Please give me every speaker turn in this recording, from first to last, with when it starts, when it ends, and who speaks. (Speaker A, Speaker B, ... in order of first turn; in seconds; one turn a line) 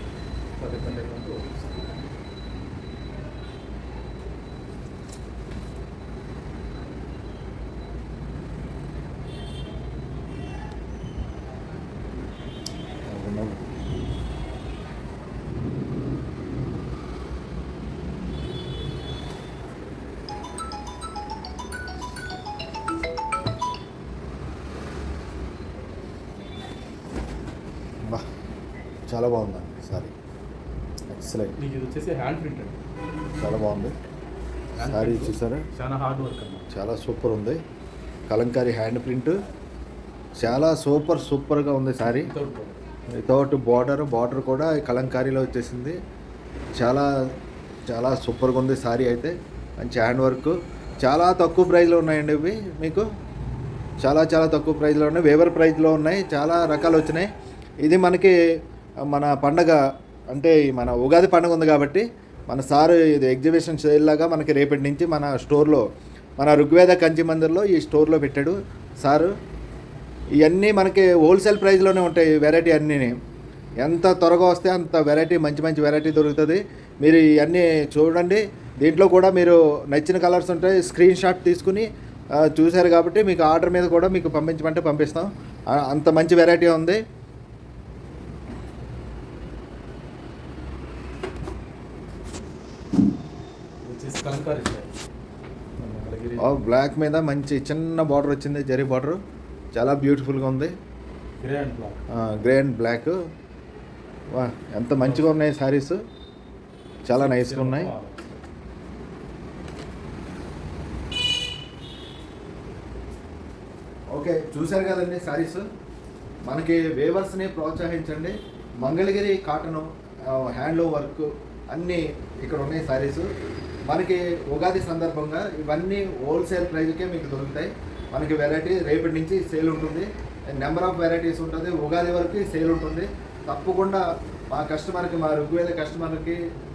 Speaker A: 0.6-2.0
Speaker B: 13.1-13.6
Speaker B: 29.1-30.1
Speaker B: 31.1-31.6
Speaker A: 31.6-32.8
Speaker B: 33.4-34.0
Speaker A: 34.8-36.7
Speaker B: 34.8-35.7
Speaker B: 36.7-37.6
Speaker B: 38.3-39.4
Speaker B: 40.4-42.3
Speaker A: 42.0-42.8
Speaker B: 43.2-46.0
Speaker B: 46.8-47.1
Speaker B: 47.9-53.0
Speaker B: 54.0-57.3
Speaker B: 57.8-58.3
Speaker B: 59.1-59.8
Speaker B: 60.3-65.8
Speaker B: 66.4-69.3
Speaker B: 70.4-73.2
Speaker B: 73.8-81.9
Speaker B: 82.4-87.0
Speaker A: 93.8-94.9
Speaker A: 95.8-96.5
Speaker B: 96.4-99.2
Speaker B: 99.7-100.7
Speaker A: 101.4-102.0
Speaker B: 102.1-103.2
Speaker B: 104.3-106.0
Speaker A: 105.0-105.4
Speaker B: 107.0-107.9
Speaker A: 107.1-108.4
Speaker B: 114.1-115.6
Speaker B: 116.5-123.3
Speaker B: 123.9-136.4